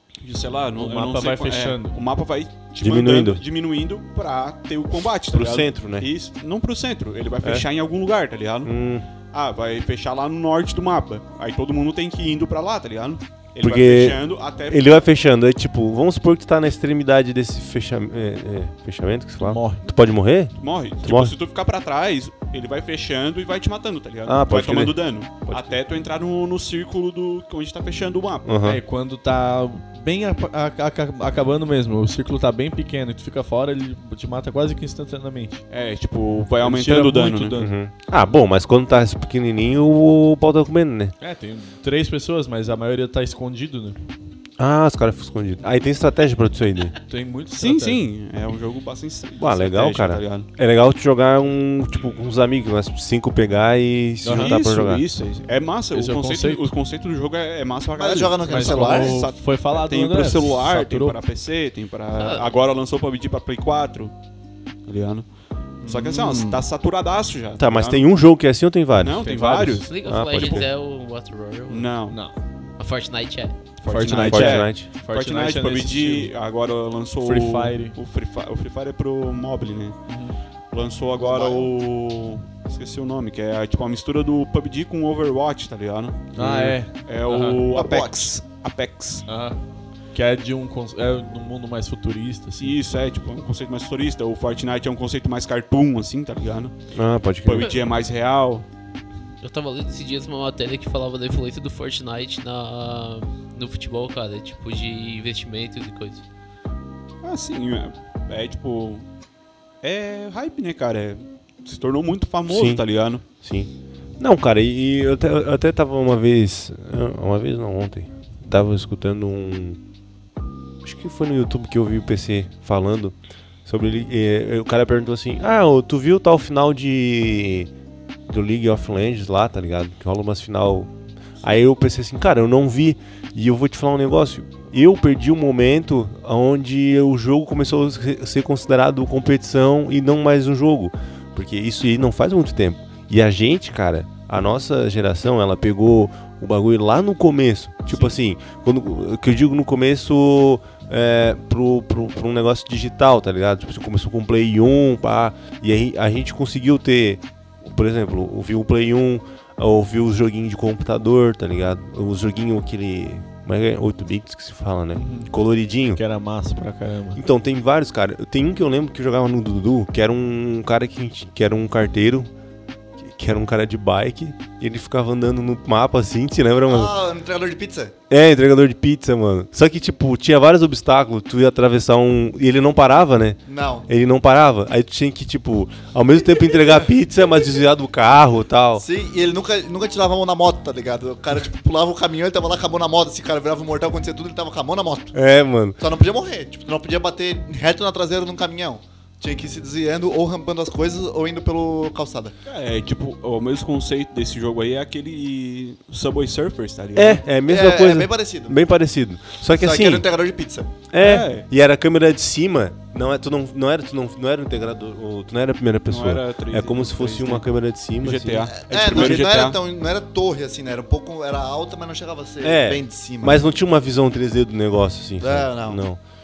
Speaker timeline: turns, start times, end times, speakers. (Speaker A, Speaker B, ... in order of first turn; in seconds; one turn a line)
Speaker A: 0.2-8.7
Speaker B: 0.7-1.9
Speaker C: 2.8-3.4
Speaker C: 5.3-6.1
Speaker C: 8.6-9.1
Speaker A: 9.3-15.0
Speaker C: 13.6-21.3
Speaker B: 19.4-19.8
Speaker A: 20.6-28.5
Speaker C: 24.2-25.8
Speaker C: 28.4-28.8
Speaker B: 28.6-35.6
Speaker A: 35.7-37.6
Speaker B: 36.6-37.7
Speaker C: 37.5-41.1
Speaker B: 41.2-44.0
Speaker C: 44.6-46.9
Speaker B: 47.1-48.0
Speaker A: 47.5-50.5
Speaker C: 49.4-55.0
Speaker B: 54.2-54.6
Speaker A: 54.2-64.1
Speaker B: 55.9-56.7
Speaker D: 57.9-59.2
Speaker B: 58.5-61.2
Speaker E: 62.2-62.6
Speaker A: 64.8-68.1
Speaker D: 65.8-66.6
Speaker C: 67.6-69.2
Speaker A: 69.0-70.7
Speaker B: 69.2-69.9
Speaker E: 69.9-72.0
Speaker C: 70.0-70.7
Speaker A: 71.7-72.4
Speaker B: 72.1-72.4
Speaker E: 72.8-73.8
Speaker A: 73.8-89.3
Speaker B: 73.9-76.3
Speaker C: 74.0-74.9
Speaker B: 77.2-77.9
Speaker B: 80.1-80.4
Speaker D: 81.1-81.7
Speaker B: 86.3-87.6
Speaker C: 86.4-86.8
Speaker D: 87.7-88.3
Speaker B: 89.2-92.7
Speaker A: 92.6-98.7
Speaker C: 96.9-97.7
Speaker E: 99.4-106.2
Speaker A: 107.2-109.0
Speaker A: 109.8-113.2
Speaker C: 112.5-119.8
Speaker C: 120.8-123.1
Speaker C: 123.7-127.7
Speaker C: 128.3-130.9
Speaker C: 131.4-166.0
Speaker B: 164.9-165.3
Speaker B: 165.9-167.2
Speaker C: 167.2-172.3
Speaker C: 173.0-176.9
Speaker D: 176.7-177.9
Speaker C: 178.1-188.8
Speaker D: 183.5-183.8
Speaker D: 188.7-195.1
Speaker C: 195.1-195.8
Speaker D: 195.8-202.3
Speaker A: 202.4-207.2
Speaker C: 206.9-210.1
Speaker D: 207.5-208.6
Speaker D: 209.5-210.7
Speaker C: 210.9-219.2
Speaker A: 211.0-211.4
Speaker A: 215.9-219.6
Speaker D: 218.5-223.4
Speaker C: 222.4-226.0
Speaker D: 225.2-225.8